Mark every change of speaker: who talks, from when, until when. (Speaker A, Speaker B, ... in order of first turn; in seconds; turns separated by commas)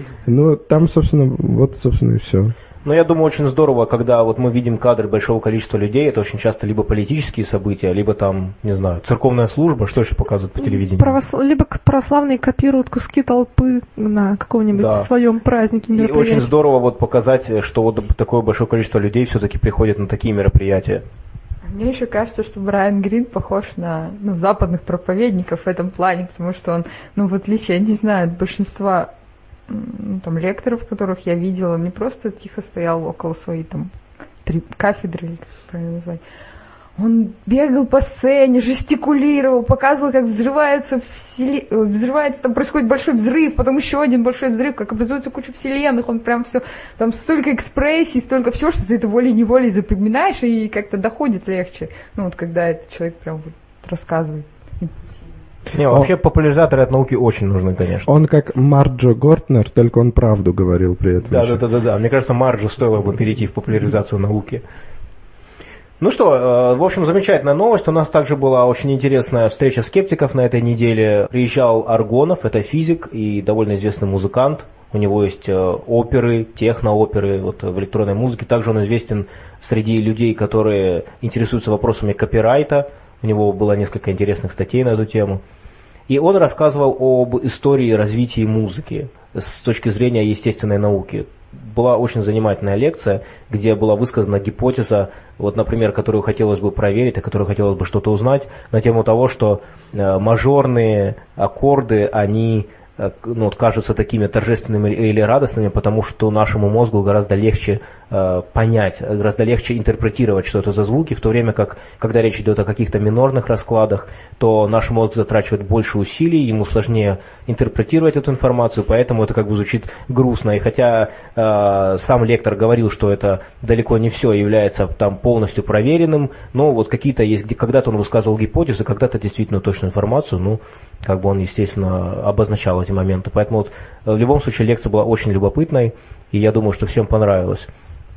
Speaker A: 0.2-2.5, Speaker B: 2.9-11.2, Speaker C: 10.6-16.5, Speaker B: 14.7-15.1, Speaker B: 15.9-21.0, Speaker D: 21.7-29.1, Speaker D: 29.7-33.9, Speaker D: 34.5-36.2, Speaker D: 37.0-55.0, Speaker B: 55.7-58.1, Speaker A: 58.1-61.6, Speaker B: 61.2-64.6, Speaker B: 66.0-85.4, Speaker B: 86.1-137.7